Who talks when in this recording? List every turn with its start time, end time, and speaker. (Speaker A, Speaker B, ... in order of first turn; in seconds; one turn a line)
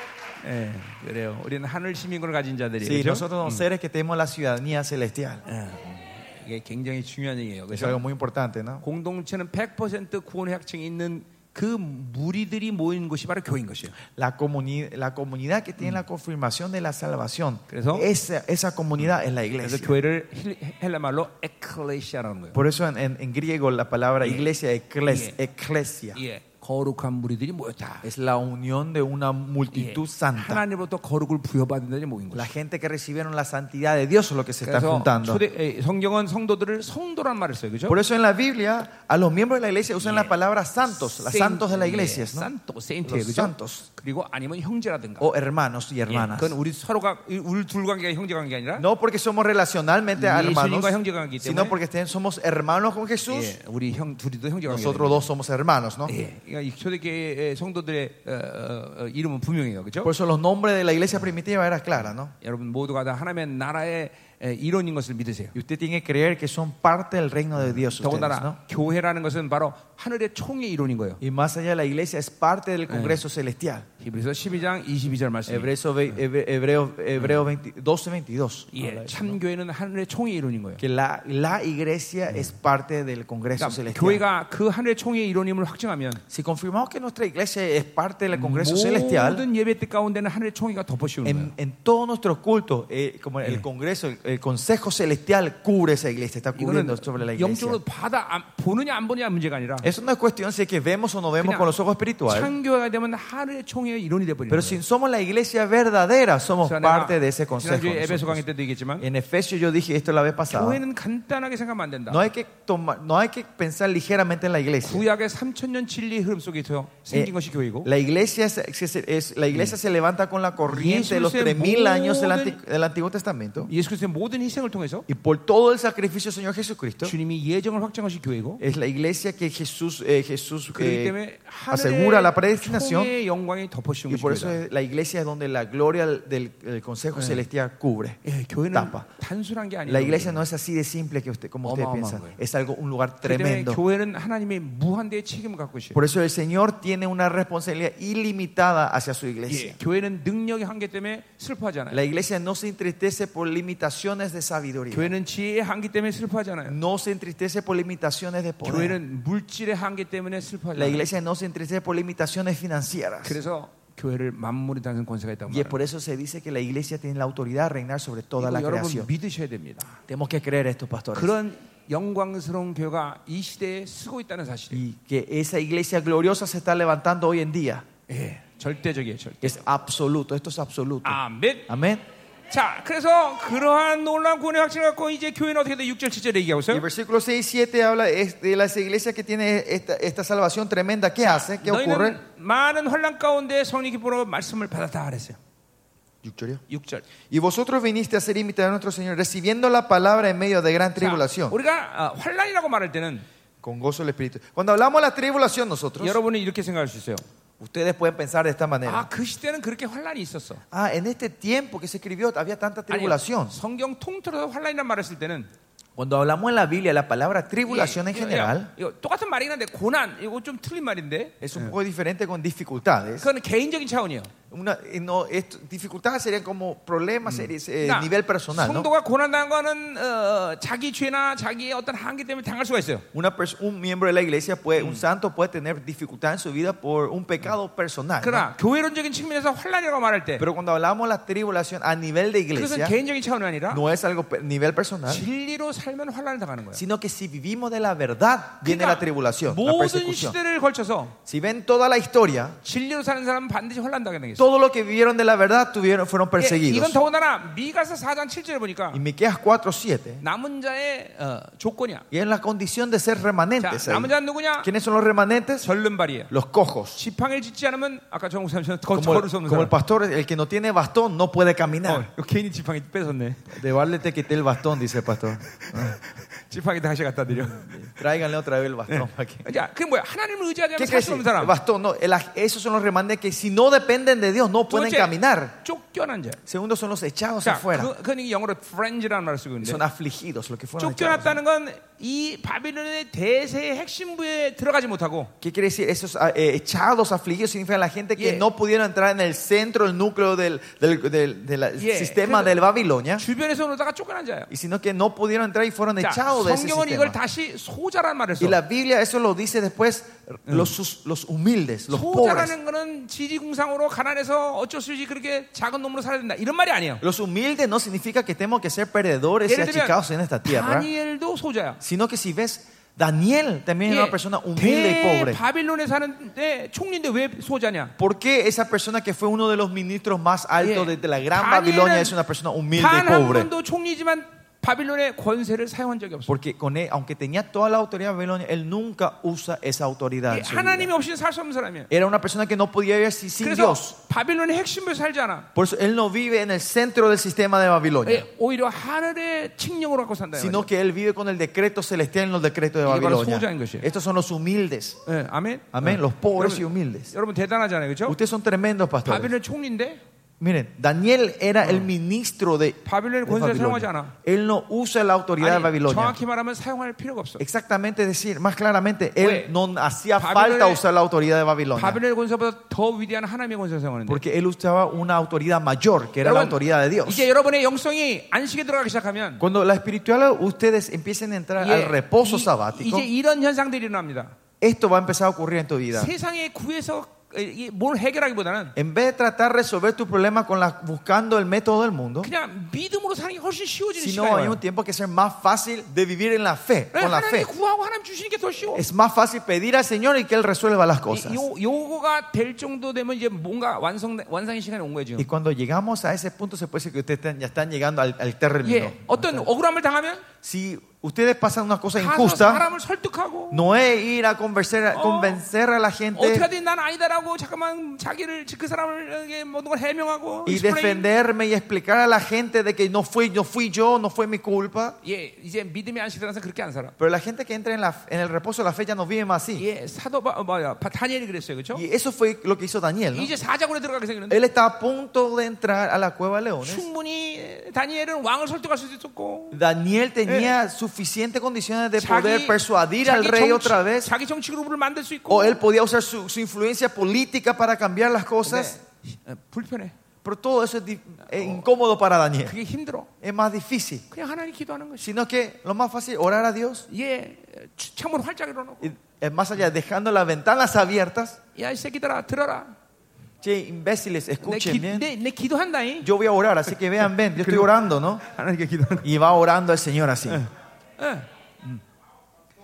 Speaker A: 0.4-3.6
Speaker B: 2.8-5.4
Speaker A: 5.5-8.0
Speaker B: 7.7-8.8
Speaker A: 8.8-14.0
Speaker B: 14.1-19.9
Speaker A: 17.7-18.1
Speaker A: 19.6-22.6
Speaker B: 22.5-26.2
Speaker A: 24.2-24.5
Speaker A: 25.1-25.4
Speaker A: 26.1-28.1
Speaker B: 28.0-30.6
Speaker A: 29.7-32.5
Speaker B: 32.3-35.4
Speaker A: 34.6-38.0
Speaker B: 37.9-42.5
Speaker A: 40.0-40.3
Speaker A: 41.1-45.3
Speaker B: 43.0-43.9
Speaker B: 45.2-46.5
Speaker A: 46.1-48.9
Speaker B: 48.8-53.5
Speaker A: 50.2-51.8
Speaker A: 53.3-55.3
Speaker B: 54.7-56.1
Speaker A: 56.1-60.1
Speaker B: 60.0-62.3
Speaker A: 62.4-65.5
Speaker B: 65.5-68.6
Speaker A: 67.7-71.2
Speaker B: 71.2-73.8
Speaker A: 72.9-73.2
Speaker A: 74.0-75.7
Speaker B: 75.5-79.4
Speaker A: 78.7-80.8
Speaker B: 80.8-84.2
Speaker A: 83.6-86.2
Speaker B: 86.3-89.5
Speaker A: 88.3-91.5
Speaker B: 91.2-97.8
Speaker A: 96.6-99.9
Speaker B: 99.8-102.5
Speaker A: 101.4-101.7
Speaker A: 102.3-104.8
Speaker B: 104.5-108.4
Speaker A: 106.6-109.1
Speaker B: 109.0-110.8
Speaker A: 110.5-112.2
Speaker B: 112.1-115.0
Speaker A: 114.8-117.9
Speaker B: 117.8-123.7
Speaker A: 120.7-122.6
Speaker A: 123.6-125.1
Speaker B: 125.1-127.2
Speaker A: 127.0-128.6
Speaker B: 128.6-131.2
Speaker A: 130.7-134.6
Speaker B: 131.7-133.1
Speaker B: 134.1-138.2
Speaker A: 137.1-137.4
Speaker A: 138.2-140.4
Speaker B: 138.7-139.1
Speaker B: 139.9-143.8
Speaker A: 141.6-142.4
Speaker A: 143.2-146.0
Speaker B: 145.9-149.8
Speaker A: 149.5-152.0
Speaker B: 151.9-155.1
Speaker A: 154.9-156.8
Speaker B: 156.7-159.0
Speaker A: 158.6-161.1
Speaker B: 160.8-163.4
Speaker A: 163.2-165.8
Speaker B: 165.5-169.1
Speaker A: 168.4-170.0
Speaker B: 170.1-171.3
Speaker A: 171.1-174.8
Speaker B: 174.7-177.9
Speaker A: 178.1-179.6
Speaker B: 179.4-182.0
Speaker A: 181.0-181.7
Speaker A: 182.5-186.9
Speaker B: 186.7-192.2
Speaker A: 191.2-195.4
Speaker B: 196.2-196.6
Speaker A: 196.7-197.1
Speaker B: 197.2-201.6
Speaker A: 201.0-203.2
Speaker B: 203.6-206.2
Speaker A: 206.0-207.2
Speaker B: 207.6-209.1
Speaker A: 208.8-210.6
Speaker B: 210.7-213.6
Speaker A: 212.9-215.5
Speaker B: 216.0-218.7
Speaker A: 217.7-221.8
Speaker B: 221.4-223.3
Speaker A: 223.2-224.3
Speaker B: 224.5-228.9
Speaker A: 227.3-233.1
Speaker B: 233.1-238.5
Speaker A: 234.8-235.0
Speaker A: 238.2-240.4
Speaker B: 240.4-242.9
Speaker A: 242.5-243.8
Speaker B: 243.7-245.2
Speaker A: 245.1-246.8
Speaker B: 246.7-250.4
Speaker A: 248.6-251.2
Speaker B: 251.3-252.6
Speaker A: 252.6-254.5
Speaker B: 254.4-257.0
Speaker A: 256.4-259.0
Speaker B: 258.9-260.2
Speaker A: 260.2-262.1
Speaker B: 262.1-265.6
Speaker A: 263.6-264.7
Speaker A: 265.6-266.3
Speaker B: 266.3-267.0
Speaker A: 266.9-269.7
Speaker B: 268.9-272.1
Speaker A: 271.9-273.5
Speaker B: 273.5-276.0
Speaker A: 275.6-278.0
Speaker B: 277.8-279.5
Speaker A: 278.9-281.6
Speaker B: 280.8-285.6
Speaker A: 284.7-286.4
Speaker B: 286.5-287.9
Speaker A: 287.4-289.8
Speaker B: 289.6-291.4
Speaker A: 290.8-295.3
Speaker B: 295.4-303.2
Speaker A: 298.2-298.5
Speaker A: 301.8-302.6
Speaker A: 303.2-304.5
Speaker B: 304.5-307.2
Speaker A: 306.0-308.6
Speaker B: 308.4-312.5
Speaker A: 310.5-310.7
Speaker A: 311.9-317.0
Speaker B: 317.0-320.9
Speaker A: 319.4-321.8
Speaker B: 321.8-325.4
Speaker A: 323.9-327.9
Speaker B: 328.0-333.5
Speaker A: 330.6-332.2
Speaker A: 332.7-336.4
Speaker B: 336.3-340.9
Speaker A: 340.3-341.9
Speaker B: 341.9-343.9
Speaker A: 343.4-345.5
Speaker B: 345.6-348.3
Speaker A: 348.1-350.7
Speaker B: 350.4-355.0
Speaker A: 352.9-353.9
Speaker A: 355.1-358.2
Speaker B: 355.7-357.1
Speaker B: 358.1-359.3
Speaker A: 359.1-360.0
Speaker B: 360.4-366.2
Speaker A: 361.6-361.9
Speaker A: 362.9-364.1
Speaker A: 365.4-367.4
Speaker B: 367.4-372.0
Speaker A: 369.2-369.5
Speaker A: 370.2-370.8
Speaker A: 371.7-374.2
Speaker B: 374.1-377.3
Speaker A: 376.2-379.4
Speaker B: 379.4-383.1
Speaker A: 381.6-384.4
Speaker B: 384.6-386.1
Speaker A: 385.9-388.7
Speaker B: 388.8-392.3
Speaker A: 392.2-394.6
Speaker B: 394.0-397.5
Speaker A: 396.9-398.8
Speaker B: 398.7-401.4
Speaker A: 401.1-405.3
Speaker B: 405.2-409.5
Speaker A: 408.6-410.2
Speaker B: 410.4-412.7
Speaker A: 412.0-413.6
Speaker B: 413.5-416.5
Speaker A: 414.9-415.4
Speaker A: 416.1-421.1
Speaker B: 420.4-425.0
Speaker A: 425.0-426.9
Speaker B: 427.0-429.6
Speaker A: 429.6-431.8
Speaker B: 431.7-433.3
Speaker A: 433.1-434.4
Speaker B: 434.3-436.9
Speaker A: 436.6-439.6
Speaker B: 439.5-444.1
Speaker A: 440.3-440.5
Speaker A: 442.0-445.6
Speaker B: 445.3-448.8
Speaker A: 448.4-449.9
Speaker B: 450.2-452.6
Speaker A: 451.4-451.6
Speaker A: 452.4-453.1
Speaker B: 453.2-454.1
Speaker A: 454.1-455.1
Speaker B: 455.0-456.9
Speaker A: 456.9-458.9
Speaker B: 458.8-461.4
Speaker A: 461.6-462.7
Speaker B: 463.4-465.1
Speaker A: 464.4-466.1
Speaker B: 466.0-468.2
Speaker A: 467.0-467.7
Speaker A: 468.3-469.1
Speaker B: 469.0-470.4
Speaker A: 470.3-471.8